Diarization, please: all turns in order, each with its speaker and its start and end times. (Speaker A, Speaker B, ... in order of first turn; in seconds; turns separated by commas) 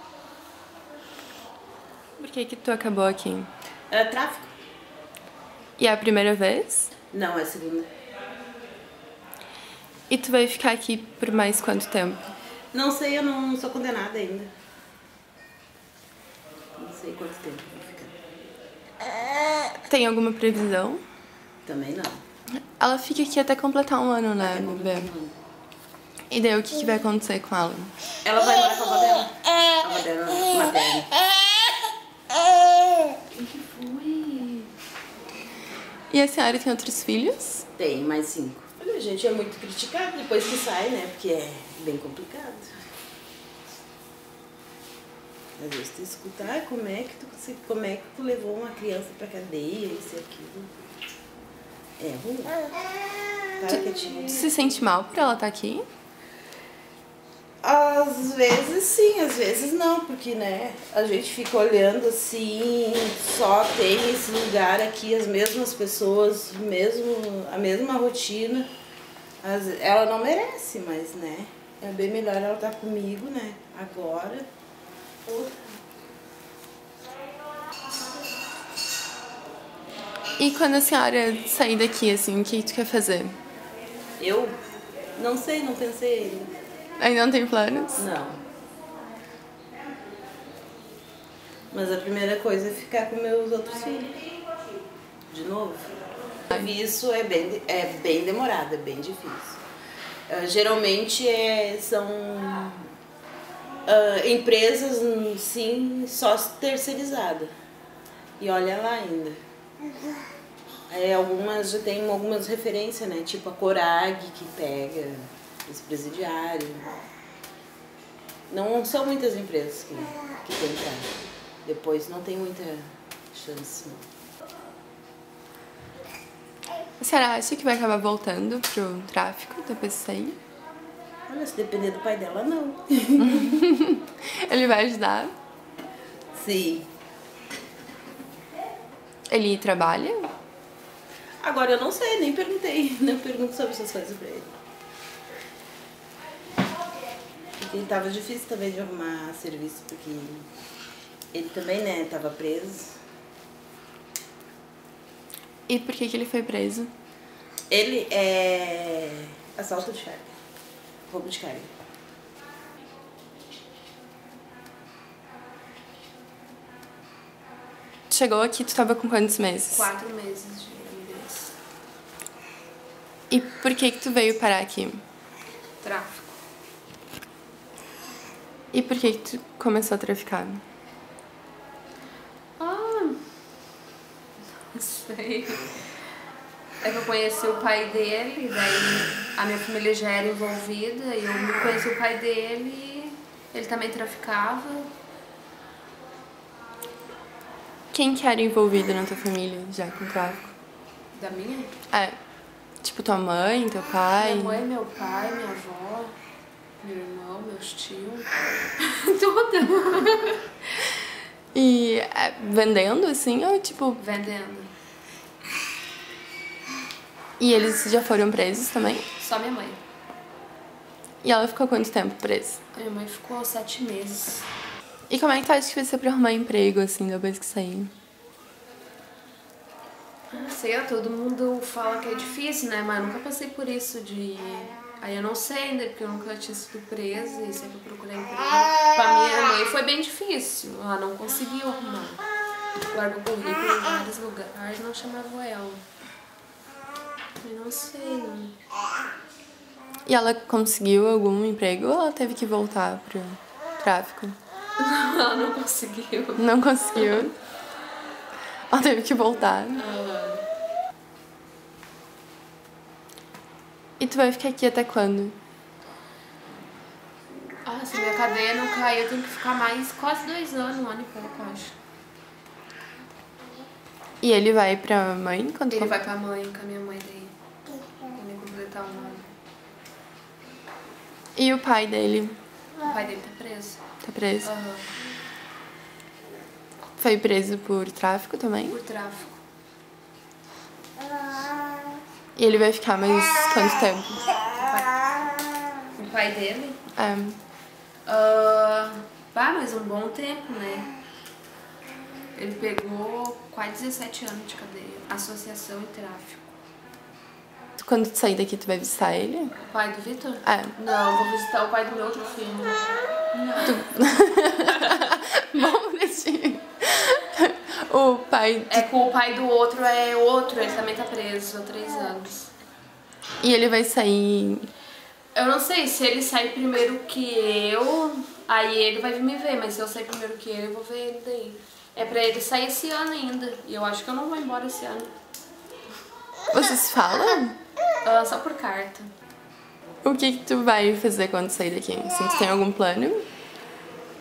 Speaker A: 2.2-3.5, Speaker B: 3.9-4.5, Speaker A: 5.8-6.9, Speaker B: 7.1-7.9, Speaker A: 10.1-12.3, Speaker B: 12.7-14.5, Speaker B: 16.8-18.1, Speaker A: 19.9-21.0, Speaker B: 21.6-22.2, Speaker A: 22.6-25.1, Speaker B: 24.4-25.4, Speaker A: 26.3-27.9, Speaker B: 28.2-31.1, Speaker C: 33.3-34.7, Speaker A: 36.1-37.6, Speaker B: 37.8-42.7, Speaker B: 45.6-50.7, Speaker B: 52.0-52.6, Speaker B: 53.6-54.5, Speaker A: 53.8-55.8, Speaker B: 57.6-68.7, Speaker B: 69.4-74.5, Speaker B: 75.2-75.6, Speaker A: 80.4-83.3, Speaker B: 84.2-84.5, Speaker B: 85.2-86.5, Speaker A: 87.0-88.0, Speaker B: 88.0-88.4, Speaker B: 91.7-94.2, Speaker B: 95.3-99.6, Speaker B: 100.3-102.9, Speaker B: 103.8-107.5, Speaker B: 108.4-109.4, Speaker B: 110.9-117.0, Speaker B: 118.5-121.1, Speaker B: 121.6-124.0, Speaker A: 127.0-130.4, Speaker B: 131.3-133.6, Speaker A: 133.3-135.3, Speaker B: 136.3-136.9, Speaker A: 139.3-140.3, Speaker B: 141.4-144.5, Speaker B: 147.6-150.5, Speaker B: 151.3-152.9, Speaker A: 155.7-156.9, Speaker B: 157.7-160.3, Speaker B: 161.1-161.7, Speaker A: 168.1-169.9, Speaker C: 169.7-171.6, Speaker A: 173.3-175.0, Speaker C: 175.8-176.3, Speaker A: 178.7-180.6, Speaker C: 182.6-183.2, Speaker C: 184.6-185.8, Speaker C: 186.8-194.9, Speaker A: 197.9-200.5, Speaker C: 201.1-201.7, Speaker A: 202.8-204.6, Speaker C: 204.2-206.2, Speaker C: 206.8-210.5, Speaker A: 211.5-214.0, Speaker C: 214.0-214.7, Speaker A: 217.4-219.0, Speaker C: 219.2-219.8, Speaker A: 221.2-222.6, Speaker C: 222.7-224.5, Speaker A: 225.1-227.9, Speaker C: 230.3-242.2, Speaker C: 242.9-245.8, Speaker C: 247.4-248.6, Speaker A: 250.1-254.4, Speaker C: 254.8-257.3, Speaker A: 256.4-257.3, Speaker A: 258.7-259.8, Speaker C: 259.6-260.4, Speaker A: 264.0-265.4, Speaker C: 267.6-271.7, Speaker A: 274.2-276.0, Speaker C: 275.7-277.3, Speaker C: 278.1-279.3, Speaker A: 281.3-282.4, Speaker C: 282.8-283.8, Speaker A: 284.0-284.5, Speaker C: 284.4-284.9, Speaker A: 287.0-288.8, Speaker C: 288.6-289.4, Speaker A: 292.4-294.2, Speaker C: 294.5-295.1, Speaker C: 295.9-296.8, Speaker A: 296.9-297.4, Speaker C: 298.0-300.9, Speaker C: 302.3-306.6, Speaker A: 307.8-309.5, Speaker C: 309.5-313.9, Speaker A: 310.4-310.7, Speaker A: 313.6-318.9, Speaker C: 314.7-315.1, Speaker C: 318.7-322.5, Speaker A: 323.4-324.7, Speaker C: 325.3-335.1, Speaker A: 336.5-337.6, Speaker C: 338.0-339.1, Speaker A: 340.0-343.2